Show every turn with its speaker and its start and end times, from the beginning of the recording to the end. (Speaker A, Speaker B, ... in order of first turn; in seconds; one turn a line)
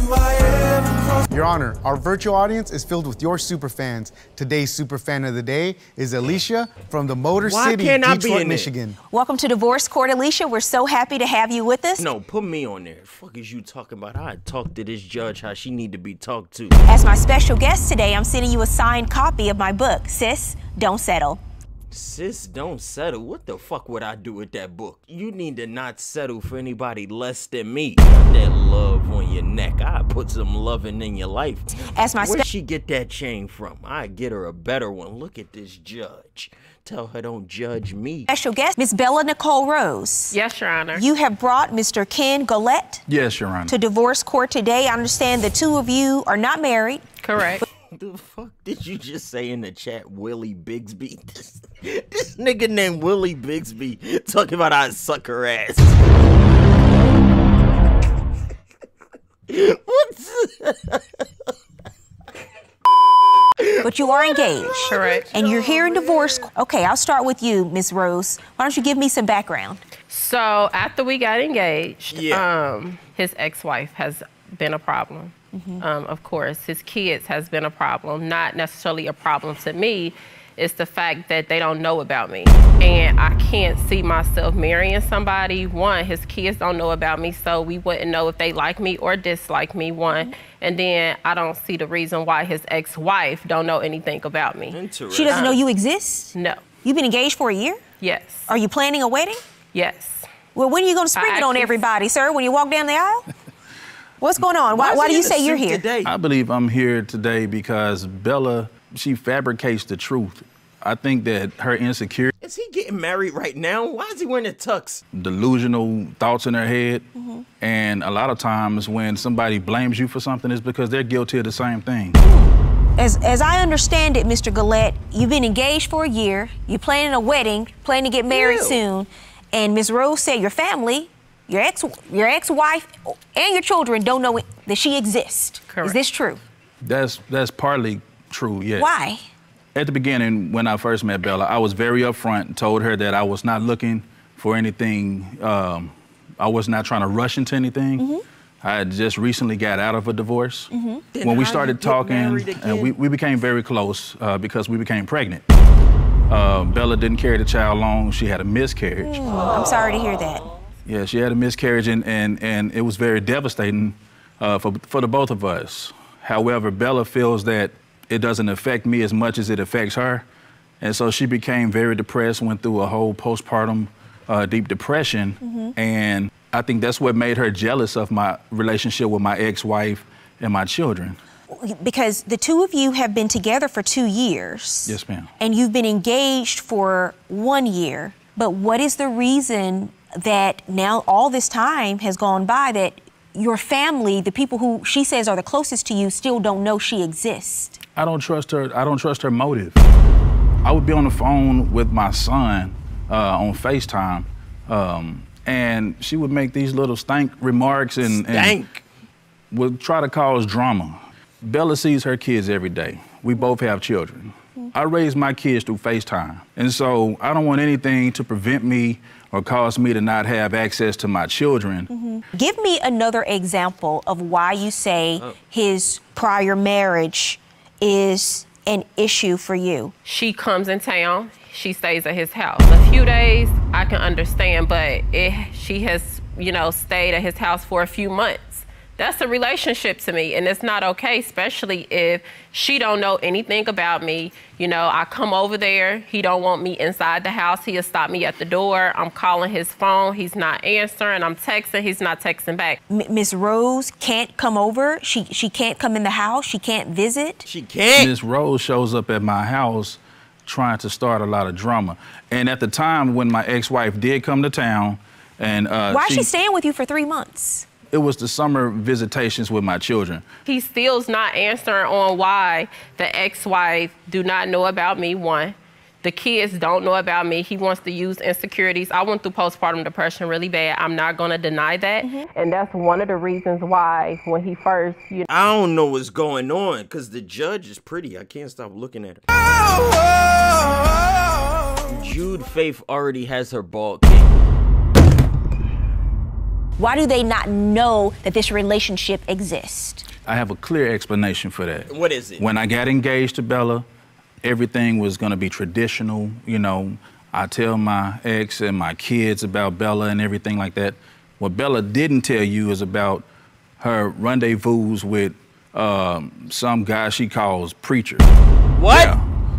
Speaker A: 0.4-0.9
Speaker B: 1.3-9.0
Speaker A: 7.4-8.7
Speaker C: 9.1-12.1
Speaker A: 12.0-16.8
Speaker C: 16.9-21.4
Speaker A: 21.9-38.3
Speaker C: 31.7-32.5
Speaker C: 38.3-40.4
Speaker D: 40.3-41.0
Speaker C: 40.9-43.0
Speaker E: 43.1-43.7
Speaker C: 43.7-47.0
Speaker D: 47.2-47.6
Speaker A: 47.9-56.0
Speaker A: 59.5-61.0
Speaker A: 63.6-66.5
Speaker C: 63.8-69.8
Speaker D: 64.8-65.3
Speaker D: 70.1-95.6
Speaker A: 72.1-72.5
Speaker C: 75.5-75.8
Speaker A: 94.7-95.5
Speaker C: 95.1-96.3
Speaker D: 96.3-96.7
Speaker C: 96.8-97.8
Speaker D: 98.0-98.5
Speaker C: 98.5-99.4
Speaker D: 99.7-100.3
Speaker C: 100.5-103.3
Speaker D: 101.1-101.9
Speaker C: 104.2-105.8
Speaker A: 104.7-106.1
Speaker E: 106.0-112.3
Speaker A: 112.4-115.0
Speaker E: 115.1-117.0
Speaker C: 117.2-117.5
Speaker E: 117.6-122.2
Speaker C: 122.2-136.4
Speaker A: 128.3-128.8
Speaker D: 135.7-136.0
Speaker E: 136.8-138.9
Speaker C: 138.8-139.2
Speaker E: 139.8-148.1
Speaker C: 148.0-148.2
Speaker E: 148.6-150.7
Speaker C: 150.7-151.1
Speaker A: 151.1-153.0
Speaker E: 151.2-155.4
Speaker E: 156.3-159.1
Speaker C: 159.0-160.4
Speaker E: 160.9-170.3
Speaker E: 170.8-181.2
Speaker C: 175.4-175.8
Speaker C: 181.5-197.8
Speaker E: 184.9-185.3
Speaker E: 198.0-199.8
Speaker E: 200.6-208.6
Speaker A: 208.0-208.8
Speaker E: 209.5-221.9
Speaker C: 221.9-229.9
Speaker D: 230.1-252.8
Speaker C: 252.9-257.5
Speaker A: 257.4-258.1
Speaker E: 257.9-266.3
Speaker C: 265.9-267.7
Speaker E: 267.9-270.2
Speaker D: 270.5-285.3
Speaker A: 285.3-289.2
Speaker A: 291.9-294.4
Speaker C: 296.8-300.1
Speaker E: 300.2-303.9
Speaker A: 301.9-302.5
Speaker E: 304.4-313.3
Speaker E: 313.8-318.3
Speaker A: 318.7-319.2
Speaker E: 318.9-319.2